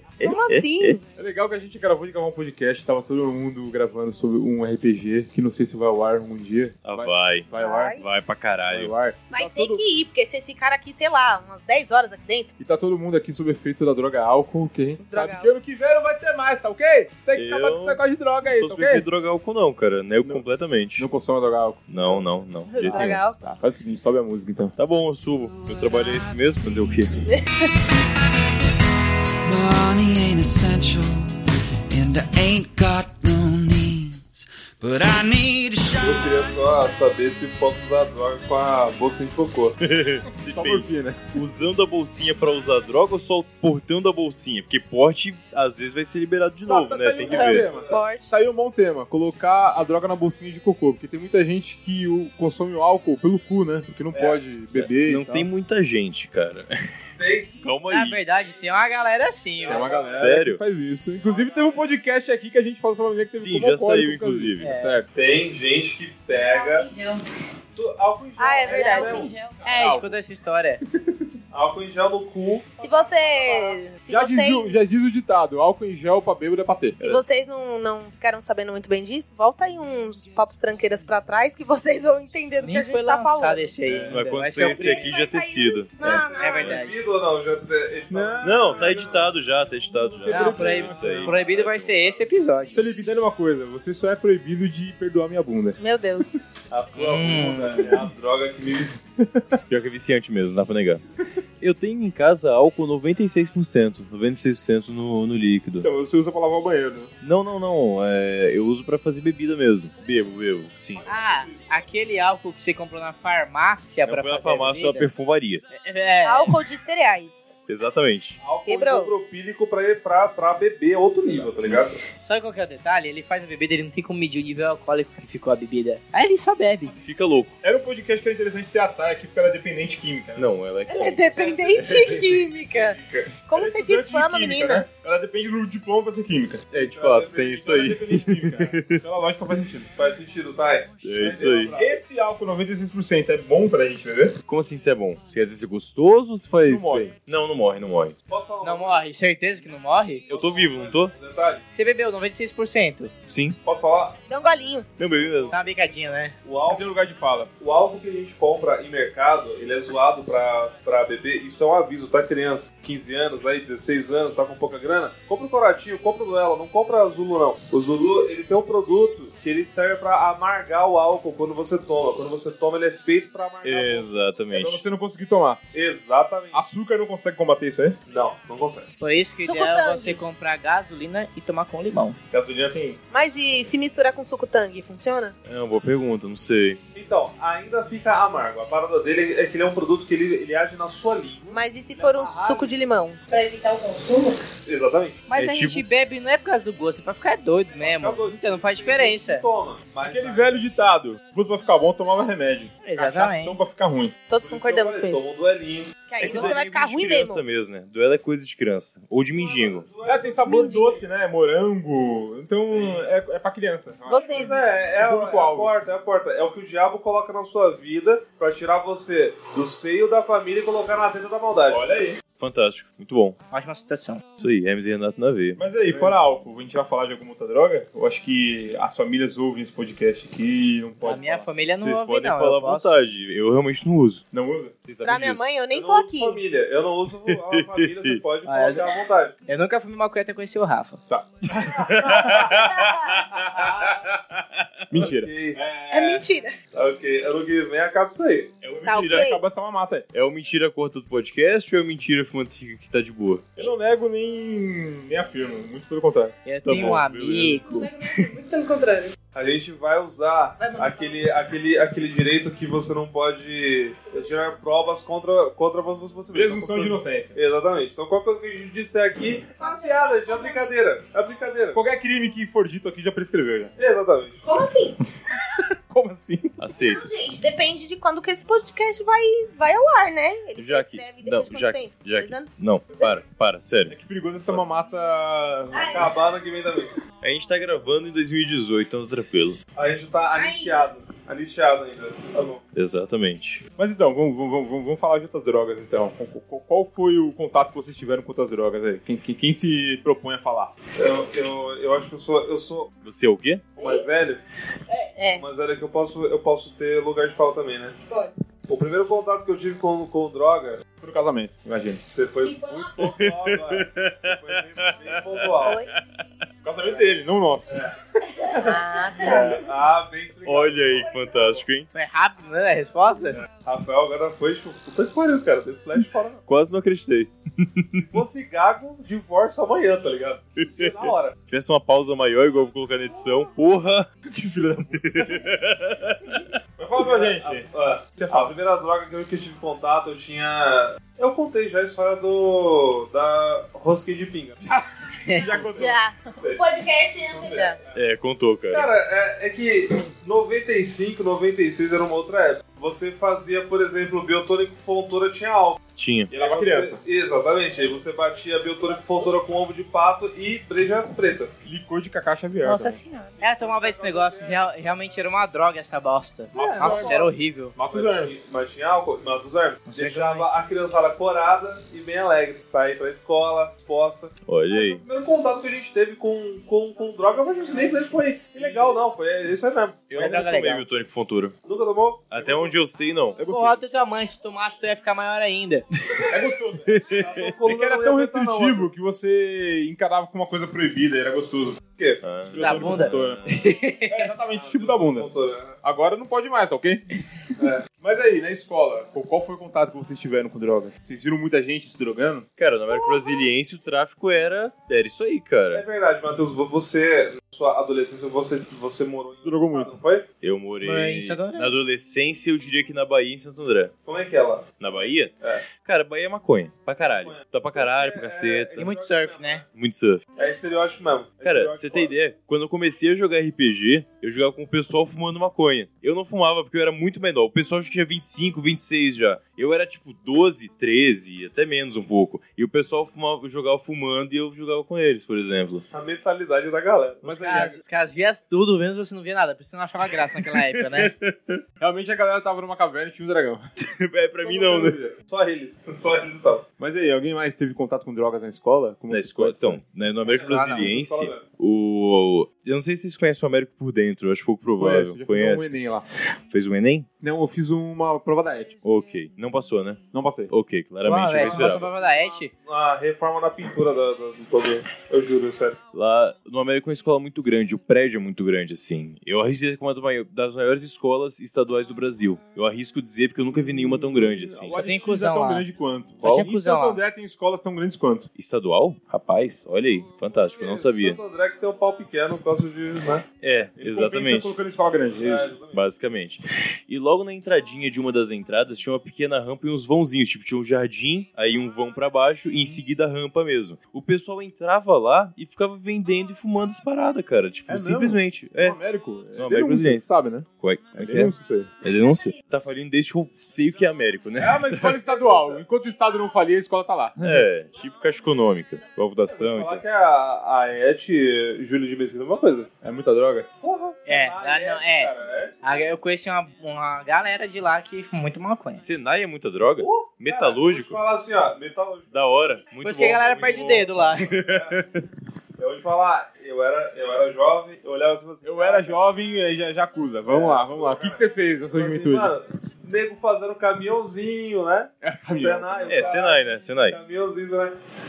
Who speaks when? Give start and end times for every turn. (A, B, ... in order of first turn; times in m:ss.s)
0:00.2-0:01.0 A
0:00.2-0:01.0 B
0:01.2-0:08.0 C
0:06.8-0:08.9 B
0:07.6-0:08.0 A
0:08.7-0:09.8 C
0:09.3-0:12.5 A
0:12.6-0:19.1 C
0:15.0-0:15.5 A
0:17.3-0:21.1 B
0:20.9-0:22.3 C
0:21.9-0:23.2 B
0:22.7-0:23.3 A
0:22.8-0:23.4 D
0:22.8-0:24.7 C
0:24.8-0:27.2 B
0:25.9-0:26.2 E
0:29.4-0:31.4 E
0:31.9-0:36.2 E
0:36.0-0:39.8 F
0:39.8-0:47.7 B
0:40.4-0:41.2 C
0:46.7-0:55.5 C
0:47.2-0:48.0 F
0:47.8-0:48.3 D
0:54.1-0:54.4 F
0:54.7-0:56.7 B
0:57.2-0:57.6 F
0:57.6-0:58.2 B
0:57.9-0:59.9 G
0:59.6-1:00.3 F
0:59.6-1:05.1 C
1:00.1-1:00.6 B
1:01.2-1:01.8 F
1:03.3-1:04.7 B
1:04.6-1:05.0 G
1:05.1-1:06.9 F
1:06.3-1:07.2 D
1:07.7-1:09.3 F
1:08.4-1:09.3 A
1:08.6-1:09.7 D
1:09.6-1:10.8 G
1:09.7-1:10.2 C
1:11.0-1:11.3 C
1:11.5-1:13.7 F
1:12.8-1:14.7 A
1:14.1-1:17.2 C
1:17.0-1:23.7 A
1:22.6-1:25.1 G
1:23.9-1:24.1 F
1:24.1-1:26.8 B
1:24.6-1:26.8 A
1:26.0-1:29.4 F
1:26.1-1:27.0 G
1:28.1-1:31.4 C
1:28.4-1:32.2 B
1:30.3-1:32.9 G
1:32.7-1:35.8 C
1:35.8-1:36.4 A
1:36.7-1:39.1 F
1:37.0-1:37.9 G
1:37.5-1:38.1 C
1:39.2-1:39.6 C
1:39.7-1:41.0 B
1:41.6-1:45.9 B
1:45.8-1:47.1 C
1:47.2-1:51.1 B
1:50.9-1:51.9 F
1:51.1-1:55.1 G
1:54.0-1:55.6 B
1:55.7-1:56.6 G
1:56.2-1:57.5 A
1:57.7-1:58.4 B
1:58.4-2:02.0 F
1:58.6-1:59.1 A
2:02.2-2:07.0 G
2:07.0-2:07.5 B
2:07.6-2:10.5 C
2:10.4-2:11.6 B
2:10.9-2:13.0 A
2:11.8-2:12.2 C
2:12.9-2:19.9 C
2:13.5-2:14.8 D
2:16.7-2:19.0 B
2:16.9-2:17.6 F
2:19.9-2:21.9 F
2:21.0-2:21.8 B
2:21.2-2:24.3 C
2:24.5-2:28.2 B
2:26.6-2:27.1 C
2:28.3-2:29.0 F
2:28.6-2:30.3 G
2:30.3-2:31.6 F
2:30.3-2:31.1 B
2:31.7-2:33.1 G
2:33.3-2:33.6 B
2:33.6-2:34.2 F
2:34.3-2:34.9 A
2:35.0-2:35.6 B
2:35.0-2:35.7 F
2:35.5-2:36.3 G
2:36.4-2:36.9 F
2:36.6-2:37.5 C
2:37.6-2:54.1 F
2:53.6-2:54.8 B
2:54.5-2:55.6 C
2:55.7-2:56.6 F
2:56.5-2:58.0 C
2:58.1-2:58.9 F
2:59.0-3:02.2 G
2:59.4-3:00.2 A
3:02.3-3:03.0 C
3:03.1-3:05.3 A
3:05.4-3:06.8 B
3:06.9-3:12.6 F
3:11.5-3:14.3 A
3:13.3-3:14.1 D
3:14.6-3:15.2 F
3:15.3-3:19.4 G
3:15.3-3:15.8 B
3:17.7-3:20.6 F
3:20.0-3:24.2 C
3:22.8-3:23.6 G
3:24.3-3:25.3 A
3:24.4-3:25.9 F
3:26.1-3:26.5 D
3:26.1-3:27.4 A
3:26.2-3:29.9 B
3:29.3-3:31.0 F
3:30.0-3:35.7 C
3:30.4-3:31.0 A
3:32.7-3:33.0 F
3:34.1-3:34.6 A
3:34.3-3:41.8 F
3:41.7-3:42.2 C
3:42.4-3:43.4 B
3:43.5-3:44.2 G
3:44.4-3:45.6 B
3:45.6-3:51.5 C
3:51.0-3:53.0 G
3:51.8-3:54.2 B
3:54.3-3:54.7 C
3:54.9-3:55.4 B
3:55.0-3:56.4 A
3:55.7-3:59.3 F
3:57.3-3:58.2 B
3:58.4-3:58.9 G
3:59.5-4:01.0 G
4:01.1-4:01.8 C
4:01.5-4:03.3 B
4:03.4-4:03.9 F
4:04.9-4:06.2 C
4:04.9-4:05.6 F
4:05.9-4:06.5 A
4:06.7-4:08.5 F
4:08.6-4:10.1 C
4:08.8-4:09.2 B
4:08.8-4:09.4 A
4:10.1-4:13.6 B
4:13.6-4:17.0 C
4:16.4-4:17.9 G
4:16.6-4:17.6 B
4:17.6-4:19.1 A
4:19.3-4:31.8 F
4:20.6-4:21.5 A
4:26.3-4:27.4 C
4:29.6-4:30.7 A
4:31.7-4:33.7 C
4:33.8-4:34.4 F
4:34.4-4:34.9 A
4:35.5-4:36.6 C
4:36.6-4:37.0 B
4:36.8-4:43.2 A
4:40.6-4:43.9 B
4:43.9-4:46.1 C
4:45.7-4:46.1 A
4:45.9-4:46.9 F
4:47.2-4:49.6 B
4:49.7-4:52.6 F
4:50.4-4:50.9 A
4:52.7-4:53.6 B
4:53.8-5:00.7 C
5:01.0-5:02.9 F
5:03.0-5:03.6 B
5:03.8-5:04.4 F
5:04.9-5:05.2 A
5:05.2-5:05.4 D
5:05.3-5:07.9 F
5:08.7-5:10.8 F
5:11.0-5:12.0 C
5:12.1-5:15.8 F
5:12.4-5:12.9 A
5:13.0-5:16.0 B
5:15.6-5:15.9 D
5:16.6-5:18.0 C
5:16.8-5:17.1 F
5:18.5-5:19.6 D
5:19.2-5:19.6 C
5:19.2-5:21.6 F
5:20.4-5:21.9 B
5:21.9-5:23.4 G
5:23.5-5:26.4 F
5:26.5-5:28.0 B
5:28.1-5:31.4 F
5:30.6-5:34.1 B
5:34.2-5:35.5 C
5:35.0-5:36.5 B
5:36.8-5:38.6 C
5:37.0-5:44.8 F
5:45.2-5:45.6 G
5:45.3-5:46.0 C
5:45.7-5:47.8 D
5:47.3-5:47.9 F
5:47.9-5:48.9 B
5:48.7-5:55.8 F
5:56.0-5:56.3 B
5:56.3-5:57.0 C
5:56.4-6:01.5 F
6:01.6-6:03.0 C
6:02.6-6:03.4 D
6:03.4-6:04.7 F
6:03.4-6:07.7 G
6:06.5-6:07.3 F
6:06.5-6:08.4 C
6:07.9-6:20.4 F
6:09.9-6:10.6 G
6:14.4-6:15.0 B
6:18.5-6:19.0 C
6:20.1-6:21.5 B
6:20.2-6:20.8 G
6:21.6-6:22.8 F
6:22.3-6:23.4 B
6:23.4-6:23.8 C
6:23.5-6:25.8 G
6:26.3-6:26.9 C
6:26.8-6:27.5 B
6:27.2-6:28.9 F
6:27.6-6:31.8 C
6:31.9-6:32.2 F
6:32.2-6:33.6 B
6:32.5-6:35.3 C
6:32.6-6:34.3 G
6:34.5-6:35.8 F
6:35.8-6:37.0 C
6:37.6-6:37.8 F
6:38.0-6:42.4 C
6:42.6-6:45.8 B
6:45.7-6:50.3 F
6:49.4-6:50.0 C
6:50.4-6:53.9 B
6:50.8-6:51.8 G
6:54.0-6:55.6 F
6:54.8-6:58.9 B
6:57.2-6:59.6 F
6:58.8-6:59.6 G
6:59.7-7:00.2 B
7:00.4-7:02.1 F
7:01.4-7:15.8 B
7:15.9-7:17.8 F
7:17.2-7:17.8 C
7:17.2-7:21.1 G
7:20.7-7:21.6 B
7:21.8-7:23.6 C
7:23.8-7:25.0 B
7:24.4-7:25.1 C
7:25.3-7:26.6 F
7:26.8-7:29.8 C
7:29.1-7:35.8 B
7:30.2-7:31.4 F
7:30.4-7:30.9 G
7:34.8-7:36.0 C
7:36.5-7:37.1 B
7:37.2-7:38.8 C
7:38.8-7:41.9 B
7:40.1-7:40.5 C
7:41.0-7:42.5 G
7:41.4-7:41.6 F
7:42.6-7:45.8 F
7:45.9-7:54.8 B
7:53.5-7:58.2 C
7:54.7-7:55.7 G
7:56.2-7:56.5 B
7:56.2-7:57.0 G
7:58.4-8:01.2 B
8:00.3-8:03.3 F
8:03.4-8:04.5 B
8:03.8-8:05.5 C
8:05.2-8:05.8 F
8:05.7-8:18.8 B
8:17.7-8:21.7 C
8:19.3-8:20.1 B
8:20.6-8:25.0 B
8:24.4-8:27.5 C
8:25.0-8:25.6 F
8:27.2-8:29.8 B
8:29.2-8:32.7 F
8:32.8-8:33.5 C
8:33.6-8:35.8 F
8:34.1-8:35.1 G
8:35.6-8:38.8 G
8:38.7-8:41.0 B
8:39.8-8:42.1 F
8:42.1-8:45.0 B
8:42.8-8:44.2 G
8:44.2-8:44.8 F
8:45.6-8:49.0 F
8:48.4-8:52.3 C
8:50.3-8:57.7 F
8:55.0-8:56.3 C
8:55.9-8:57.0 B